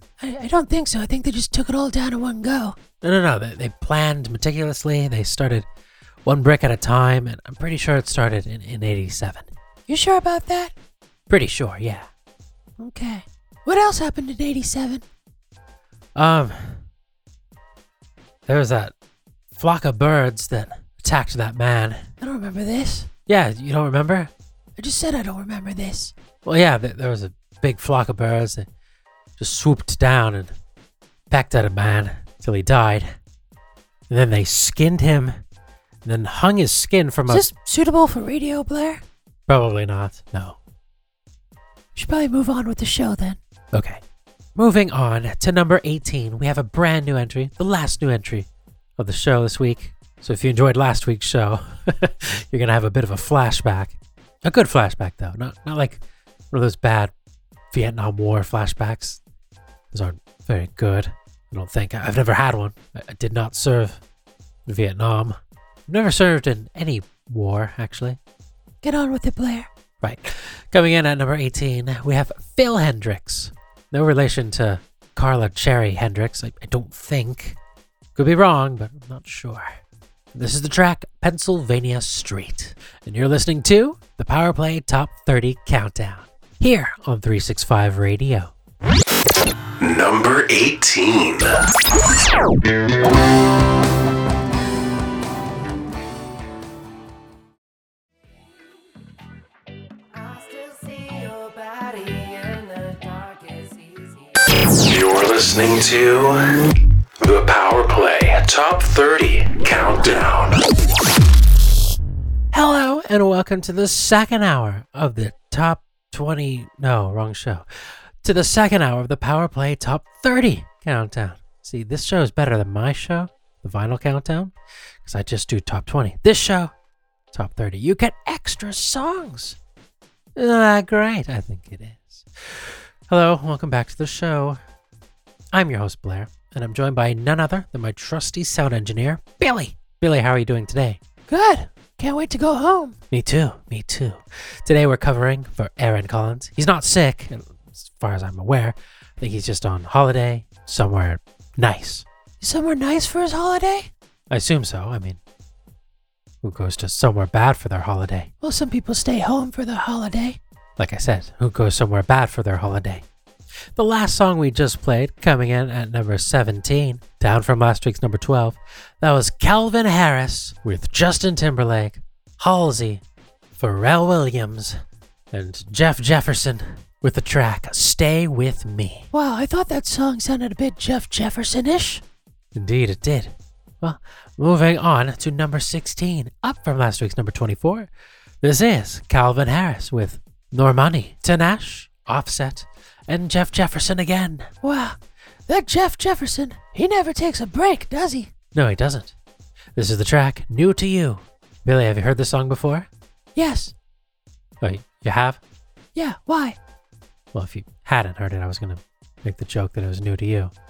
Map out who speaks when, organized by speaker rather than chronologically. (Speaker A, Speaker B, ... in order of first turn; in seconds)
Speaker A: 0.2-2.8, 9.9-10.7, 12.8-15.0, 22.2-23.1, 24.8-26.1, 37.3-39.0, 41.9-43.4, 68.8-69.7, 141.3-143.0, 152.4-153.9, 158.4-160.4, 179.1-182.0, 194.6-198.3, 203.3-203.7, 205.9-206.6
Speaker B: 3.0-5.7, 6.2-9.5, 11.3-12.1, 16.1-16.8, 18.4-18.9, 19.6-22.1, 23.3-24.3, 26.4-28.7, 29.4-30.5, 31.3-33.1, 34.1-35.4, 36.0-37.5, 39.5-40.6, 43.7-44.0, 44.5-57.1, 57.7-59.2, 59.9-64.0, 64.7-65.4, 65.9-68.2, 70.0-77.6, 78.2-79.8, 80.3-88.5, 107.2-109.6, 112.5-117.7, 118.2-126.7, 127.3-129.6, 130.3-134.6, 135.5-141.0, 143.1-152.1, 154.3-155.2, 156.4-158.3, 160.8-163.1, 163.8-173.0, 173.6-174.8, 175.3-179.1, 182.5-187.9, 188.4-194.5, 198.5-199.1, 199.8-202.9, 204.6-205.4, 207.3-210.5
Speaker C: 89.8-91.5, 104.7-106.4, 107.2-110.6
Speaker D: 100.7-103.6